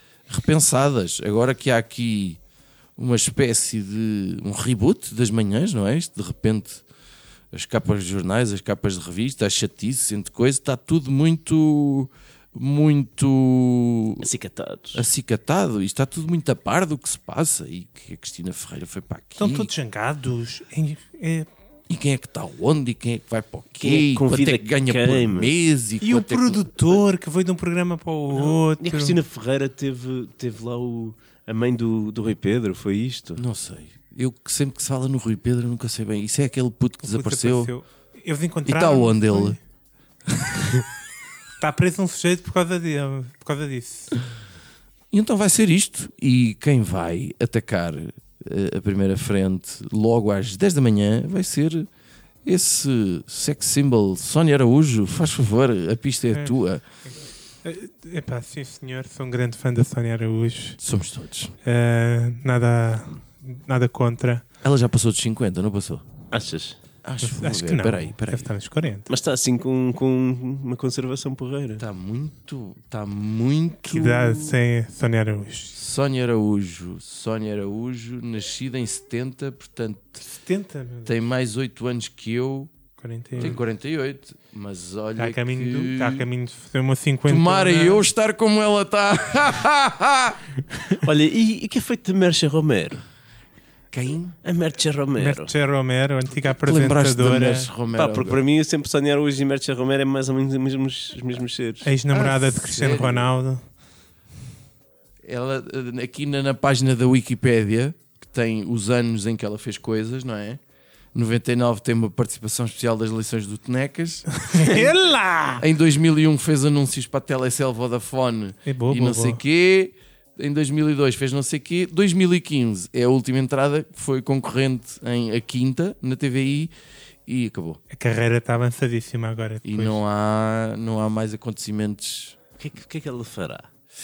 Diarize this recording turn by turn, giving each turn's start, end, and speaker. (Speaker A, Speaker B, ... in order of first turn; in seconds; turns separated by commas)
Speaker A: 0.3-2.4, Speaker A: 3.0-6.8, Speaker A: 7.5-14.3, Speaker B: 14.2-15.1, Speaker A: 14.9-19.7, Speaker C: 19.4-21.5, Speaker A: 21.9-26.7, Speaker B: 23.8-25.5, Speaker C: 26.0-29.2, Speaker B: 28.4-33.4, Speaker A: 33.4-37.7, Speaker C: 37.0-39.6, Speaker A: 38.7-39.6, Speaker C: 41.6-44.2, Speaker A: 45.1-51.9, Speaker A: 52.4-56.8, Speaker C: 57.6-60.8, Speaker A: 60.8-61.5, Speaker C: 61.6-64.4, Speaker A: 64.6-66.0, Speaker B: 66.3-66.8, Speaker A: 67.0-68.5, Speaker C: 67.2-69.1, Speaker B: 69.1-71.8, Speaker A: 71.8-74.6, Speaker C: 73.9-75.7, Speaker A: 75.7-80.2, Speaker C: 80.2-81.1, Speaker A: 81.1-82.7, Speaker C: 83.0-83.6, Speaker A: 83.4-86.3, Speaker C: 85.2-88.1, Speaker A: 87.2-90.4, Speaker B: 91.0-93.0, Speaker A: 93.9-94.4, Speaker B: 94.4-95.5, Speaker C: 95.2-97.7, Speaker A: 96.4-98.4, Speaker B: 97.9-101.9, Speaker C: 101.8-103.6, Speaker A: 102.1-103.3, Speaker A: 105.2-110.6, Speaker A: 111.1-114.9, Speaker C: 114.4-115.6, Speaker A: 115.6-126.7, Speaker C: 118.7-119.4, Speaker A: 127.2-127.8, Speaker C: 127.9-130.0, Speaker A: 129.6-132.4, Speaker B: 132.6-133.7